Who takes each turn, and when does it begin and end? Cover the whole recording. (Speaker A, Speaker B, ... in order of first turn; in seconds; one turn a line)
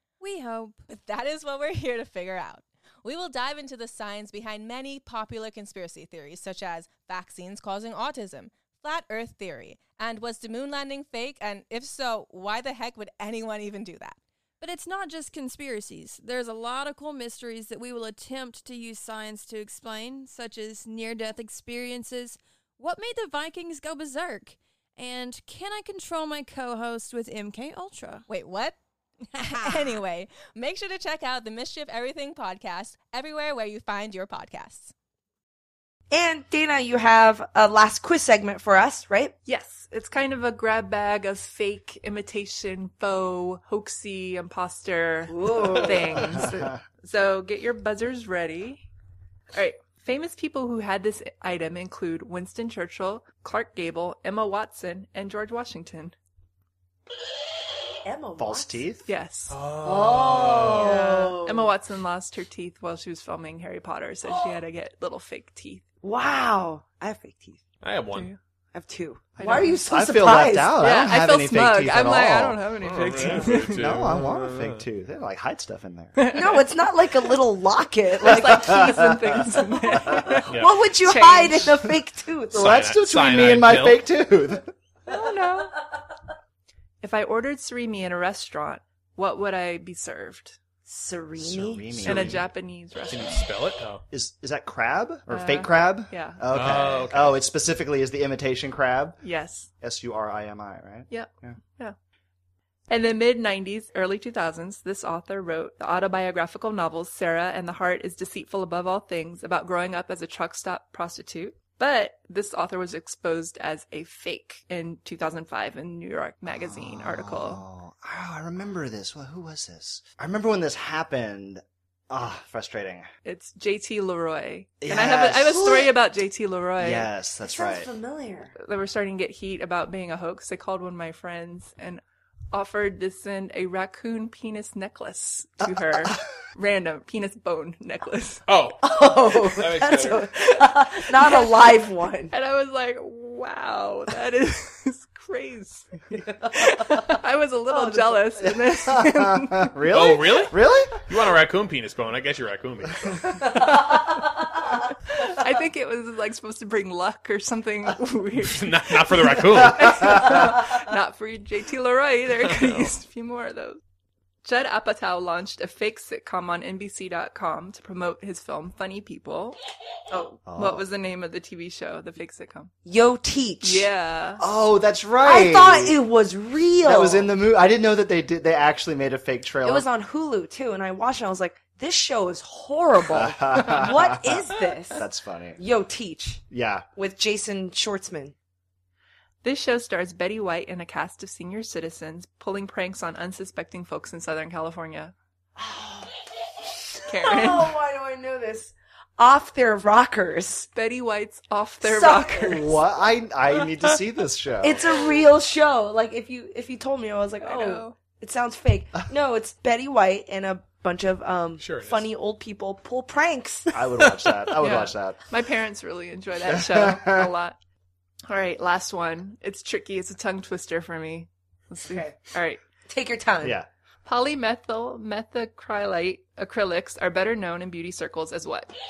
Speaker A: 0.2-0.8
Speaker B: 0.9-14.2
Speaker A: 14.6-28.2
Speaker B: 28.3-28.8
Speaker B: 29.3-34.9
Speaker C: 36.1-39.3
Speaker D: 39.4-48.9
Speaker C: 45.3-46.4
Speaker D: 49.5-56.1
Speaker C: 58.0-58.9
Speaker E: 58.4-59.0
Speaker D: 59.0-59.6
Speaker F: 59.5-61.0
Speaker C: 59.9-61.7
Speaker D: 60.6-65.8
Speaker C: 66.0-67.6
Speaker F: 67.8-68.3
Speaker D: 68.1-68.4
Speaker C: 68.7-70.8
Speaker D: 69.4-69.7
Speaker E: 69.4-72.6
Speaker D: 70.8-74.0
Speaker F: 72.8-74.8
Speaker E: 73.2-76.3
Speaker D: 76.2-76.6
Speaker C: 76.3-79.0
Speaker D: 78.2-81.9
Speaker E: 78.4-80.3
Speaker C: 79.9-82.7
Speaker E: 82.5-84.7
Speaker F: 82.5-84.0
Speaker D: 85.1-85.8
Speaker D: 87.0-90.6
Speaker C: 90.8-92.3
Speaker E: 91.4-92.5
Speaker D: 92.0-93.5
Speaker F: 93.1-94.0
Speaker E: 94.1-99.2
Speaker D: 95.3-96.9
Speaker F: 96.5-97.4
Speaker D: 99.2-99.7
Speaker E: 99.8-101.6
Speaker D: 101.1-101.9
Speaker D: 102.9-117.6
Speaker E: 116.5-123.1
Speaker D: 123.2-127.1
Speaker E: 124.8-125.9
Speaker E: 126.8-127.9
Speaker C: 127.4-128.5
Speaker D: 128.6-132.0
Speaker D: 132.5-138.4
Speaker F: 138.5-140.3
Speaker C: 138.8-142.3
Speaker D: 141.1-141.7
Speaker D: 142.3-149.8
Speaker C: 147.7-148.3
Speaker E: 148.4-151.0
Speaker F: 149.9-153.7
Speaker D: 155.1-163.8
Speaker F: 158.4-160.4
Speaker D: 164.4-169.6
Speaker C: 170.1-170.4
Speaker E: 170.4-170.8
Speaker D: 170.5-172.7
Speaker C: 172.8-173.9
Speaker D: 173.6-174.4
Speaker E: 174.4-176.0
Speaker C: 175.2-177.3
Speaker E: 176.8-179.8
Speaker C: 179.6-185.0
Speaker E: 183.1-185.6
Speaker C: 185.6-186.4
Speaker E: 186.5-186.8
Speaker C: 186.9-188.3
Speaker D: 189.4-195.1
Speaker C: 195.6-196.1
Speaker D: 197.1-197.8
Speaker C: 197.2-200.7
Speaker D: 200.7-202.8
Speaker C: 201.8-202.6
Speaker E: 202.4-204.9
Speaker C: 204.6-213.7
Speaker D: 207.4-207.9
Speaker F: 211.6-212.1
Speaker E: 213.7-215.2
Speaker D: 214.6-217.6
Speaker E: 216.4-217.3
Speaker D: 218.3-222.6
Speaker C: 221.9-222.2
Speaker C: 222.9-223.6
Speaker E: 223.4-223.7
Speaker D: 224.0-228.7